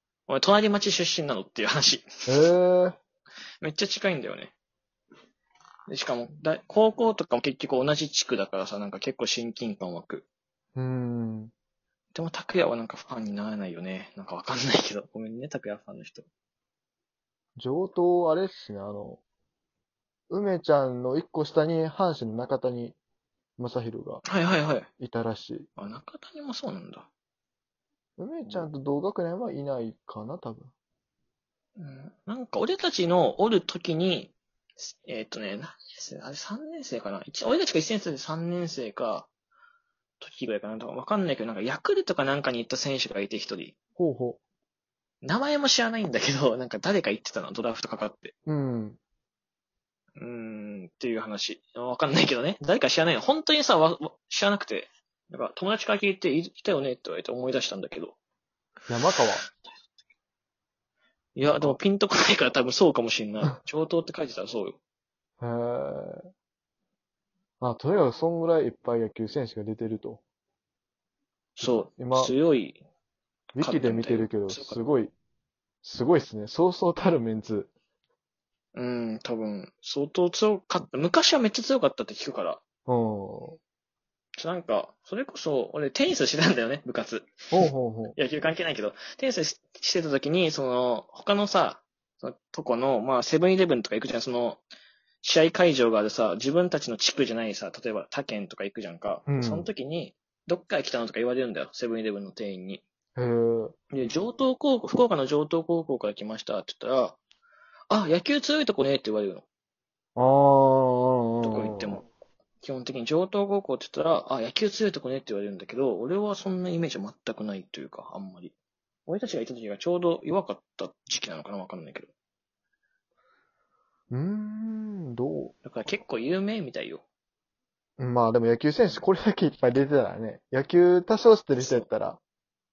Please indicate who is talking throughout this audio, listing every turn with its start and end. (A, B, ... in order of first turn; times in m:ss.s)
0:00.3-0:02.3 A
0:02.3-0:03.0 B
0:03.6-0:04.5 A
0:05.9-0:10.2 A
0:10.8-0:11.5 B
0:12.1-0:16.2 A
0:17.6-0:19.2 B
0:20.3-0:23.0 B
0:23.6-0:24.2 B
0:24.2-0:24.9 A
0:25.0-0:25.7 B
0:25.8-0:27.1 A
0:28.2-0:30.7 B
0:31.8-0:39.3 A
0:40.2-0:43.7 A
0:44.0-0:44.4 B
0:45.2-0:48.3 A
0:48.5-0:49.0 B
0:50.2-0:58.1 A
0:58.9-0:59.5 B
1:01.4-1:04.8 A
1:01.5-1:01.8 B
1:05.4-1:06.2 B
1:07.6-1:10.2 B
1:11.6-1:12.8 A
1:11.6-1:12.3 B
1:13.5-1:15.1 B
1:13.6-1:14.8 A
1:15.8-1:17.7 B
1:18.7-1:22.6 A
1:22.9-1:23.6 B
1:24.4-1:34.6 A
1:27.5-1:28.2 B
1:35.2-1:42.8 A
1:39.3-1:39.7 B
1:43.2-1:43.7 B
1:43.9-1:47.2 A
1:47.9-1:49.4 A
1:50.2-1:52.0 B
1:51.4-1:52.0 A
1:52.6-1:58.5 A
1:59.1-2:02.1 A
2:04.1-2:05.5 B
2:05.6-2:07.0 A
2:08.0-2:12.2 B
2:11.6-2:11.9 A